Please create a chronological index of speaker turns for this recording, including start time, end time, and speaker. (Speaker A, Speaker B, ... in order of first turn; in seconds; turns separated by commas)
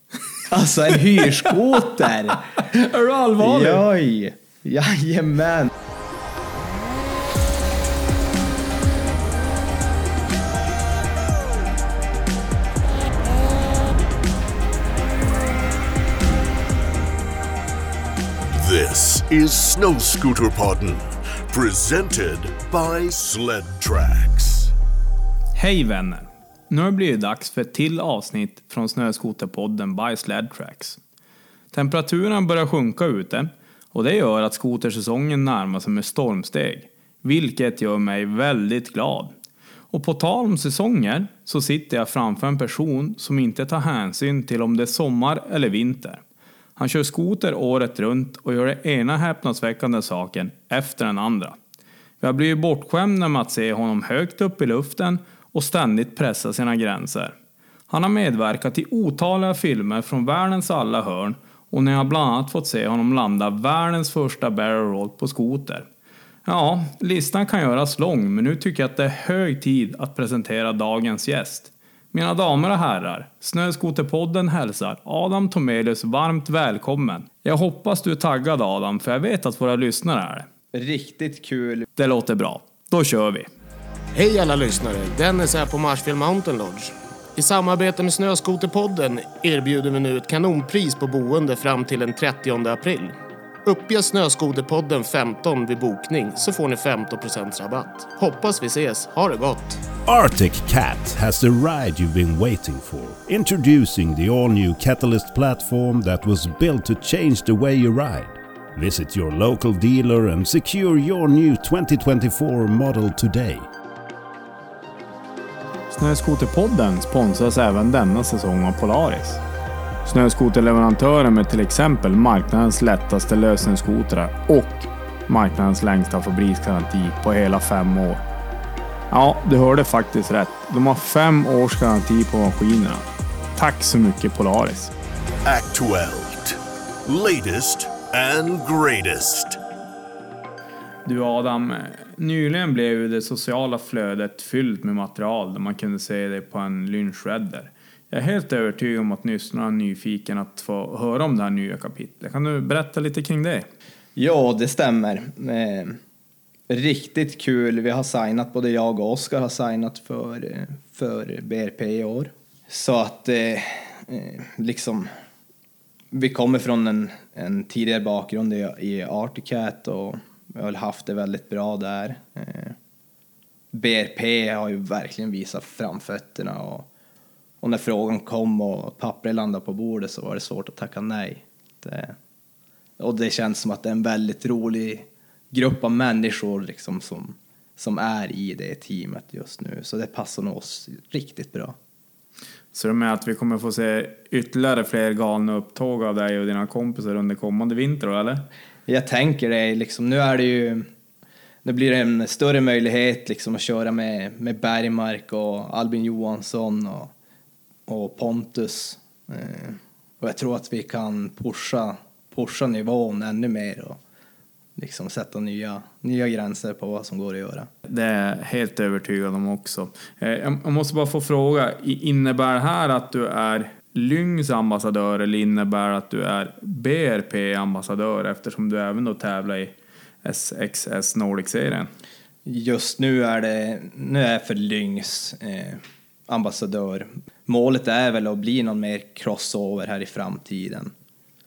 Speaker A: 0.5-2.6, Speaker B: 2.6-3.9, Speaker A: 3.4-5.7, Speaker C: 18.5-24.7, Speaker B: 25.6-31.0, Speaker B: 31.7-39.3, Speaker B: 39.9-46.2, Speaker B: 46.8-51.6, Speaker B: 52.2-57.4, Speaker B: 57.9-65.9, Speaker B: 66.5-80.5, Speaker A: 80.7-81.9, Speaker B: 82.0-83.5, Speaker D: 84.1-99.8, Speaker E: 100.1-113.7, Speaker B: 115.9-119.4, Speaker B: 120.1-128.2, Speaker B: 129.1-133.0, Speaker B: 133.6-134.9, Speaker C: 135.4-139.6, Speaker B: 141.1-153.7, Speaker A: 154.2-156.0, Speaker A: 156.7-165.1, Speaker A: 166.1-172.8, Speaker A: 173.7-176.9, Speaker A: 177.6-182.2, Speaker A: 183.0-191.8, Speaker B: 192.7-198.5, Speaker A: 198.9-200.9, Speaker A: 201.6-207.1, Speaker A: 207.9-214.0, Speaker A: 214.8-217.7, Speaker B: 217.9-231.9, Speaker A: 232.5-240.9